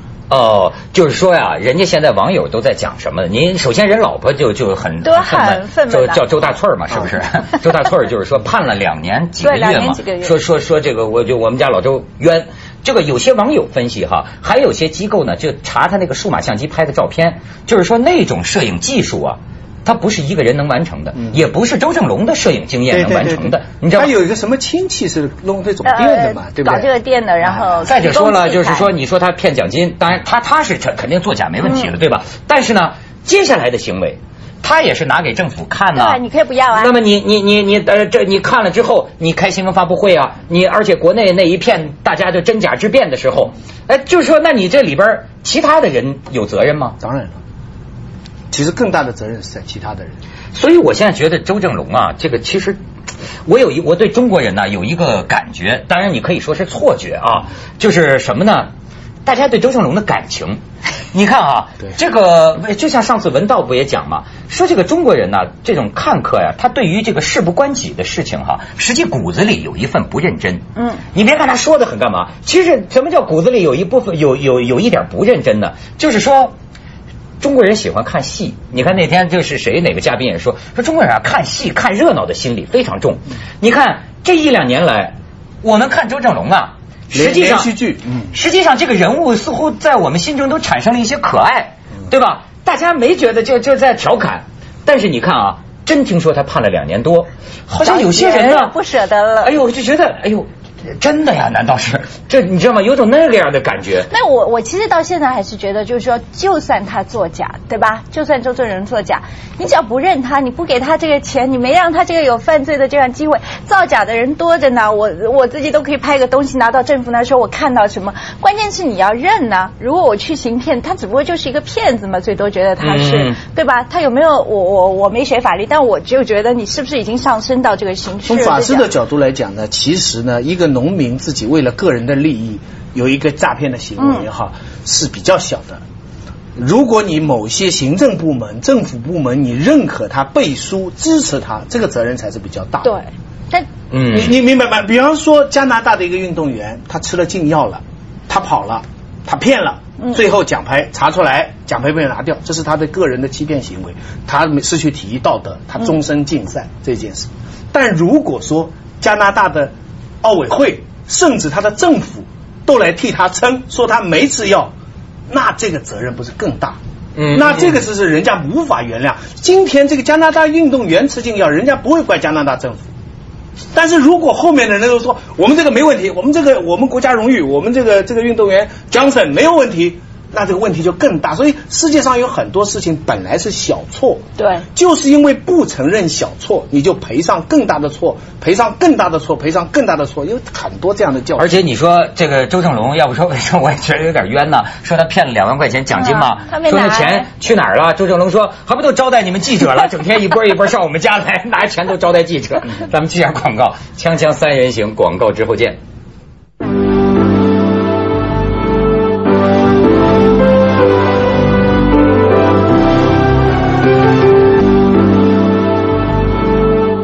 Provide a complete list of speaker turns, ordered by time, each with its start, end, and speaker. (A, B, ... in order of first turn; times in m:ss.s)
0:00.3-0:24.2 A
0:05.0-0:06.2 B
0:09.4-0:10.4 B
0:22.9-0:26.9 C
0:25.8-0:28.9 B
0:27.4-0:27.8 C
0:27.8-0:36.2 A
0:35.9-0:36.9 B
0:36.7-0:47.0 A
0:47.0-0:47.4 C
0:48.5-0:50.2 C
0:50.5-0:52.8 A
0:53.4-0:58.7 A
0:59.2-1:00.6 A
1:01.1-1:10.6 A
1:10.8-1:11.0 B
1:11.1-1:16.5 A
1:17.4-1:27.7 A
1:27.1-1:28.3 C
1:28.3-1:38.7 A
1:37.8-1:39.5 B
1:39.4-1:44.1 A
1:44.1-2:08.9 B
2:02.8-2:03.4 A
2:08.2-2:15.8 C
2:14.0-2:14.2 B
2:16.6-2:22.9 C
2:22.8-2:23.7 B
2:23.9-2:24.4 A
2:24.1-2:44.7 C
2:45.3-2:52.8 C
2:47.2-2:47.8 A
2:53.7-3:04.2 C
3:04.4-3:04.6 B
3:04.7-3:11.6 C
3:11.4-3:25.8 A
3:15.9-3:17.3 B